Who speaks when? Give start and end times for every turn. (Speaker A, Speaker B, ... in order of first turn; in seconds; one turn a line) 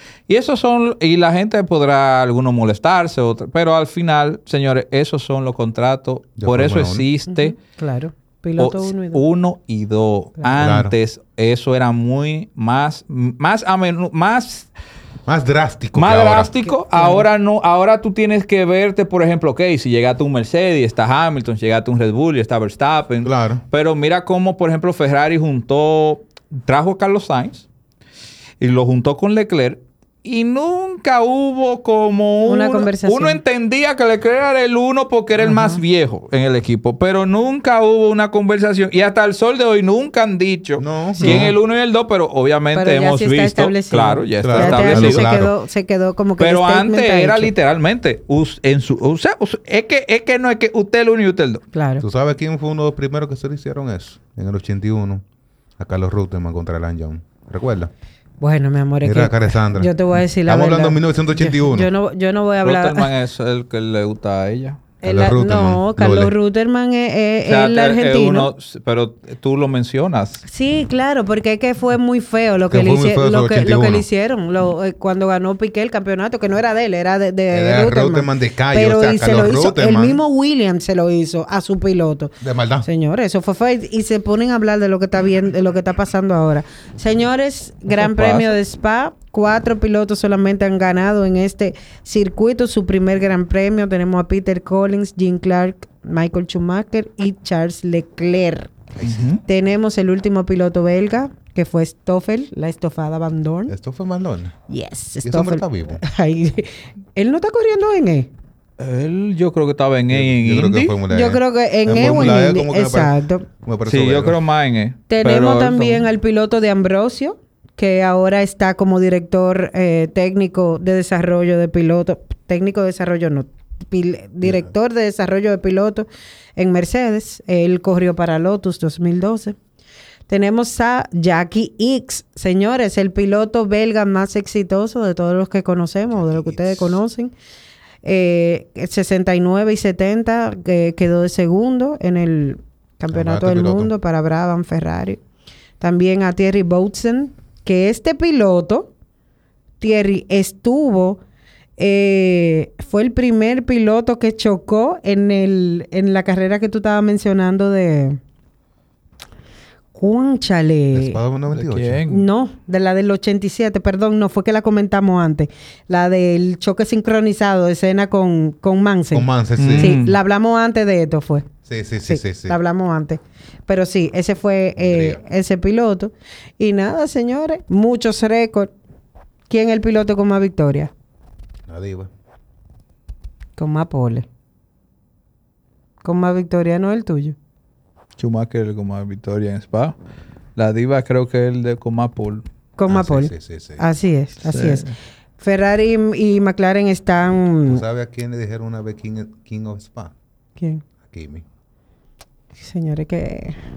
Speaker A: 0.3-7.5
Speaker B: 6.4-7.0
Speaker C: 7.3-9.2
Speaker A: 8.6-14.7
Speaker B: 10.6-10.9
Speaker B: 15.3-16.6
Speaker A: 15.9-27.7
Speaker C: 16.7-17.3
Speaker B: 23.2-23.6
Speaker A: 28.6-45.3
Speaker C: 32.5-33.4
Speaker C: 35.4-35.8
Speaker B: 40.8-41.5
Speaker C: 41.2-41.5
Speaker C: 42.7-47.5
Speaker B: 44.4-45.5
Speaker A: 46.4-51.6
Speaker C: 51.7-52.0
Speaker B: 52.0-55.2
Speaker B: 55.8-57.9
Speaker C: 58.4-63.1
Speaker B: 59.0-61.9
Speaker A: 62.6-64.8
Speaker C: 65.0-68.5
Speaker B: 65.0-66.3
Speaker A: 67.5-70.4
Speaker C: 70.4-98.7
Speaker B: 72.7-74.0
Speaker B: 77.5-80.2
Speaker B: 82.4-82.9
Speaker A: 87.9-88.5
Speaker B: 99.0-99.3
Speaker A: 99.0-99.4
Speaker C: 99.4-103.7
Speaker B: 103.7-104.5
Speaker C: 104.7-108.3
Speaker B: 105.2-106.0
Speaker A: 108.8-111.0
Speaker B: 110.1-114.4
Speaker C: 111.1-113.5
Speaker A: 113.8-116.0
Speaker C: 115.1-129.6
Speaker C: 130.3-137.3
Speaker B: 136.1-137.0
Speaker C: 138.0-145.2
Speaker B: 143.1-143.9
Speaker C: 145.8-148.9
Speaker C: 149.8-151.2
Speaker C: 151.8-158.2
Speaker C: 159.9-161.2
Speaker B: 160.9-162.0
Speaker A: 161.5-162.2
Speaker C: 162.1-171.5
Speaker B: 169.1-170.0
Speaker A: 169.6-170.1
Speaker B: 171.7-172.6
Speaker C: 172.1-178.7
Speaker B: 174.8-175.2
Speaker C: 179.5-180.9
Speaker B: 181.7-182.1
Speaker C: 183.6-184.2
Speaker C: 186.0-187.3
Speaker A: 188.2-189.9
Speaker A: 190.6-192.4
Speaker C: 192.8-197.8
Speaker B: 192.9-193.8
Speaker A: 194.4-194.9
Speaker B: 197.7-200.1
Speaker C: 200.6-200.8
Speaker B: 201.0-201.4
Speaker C: 202.6-203.6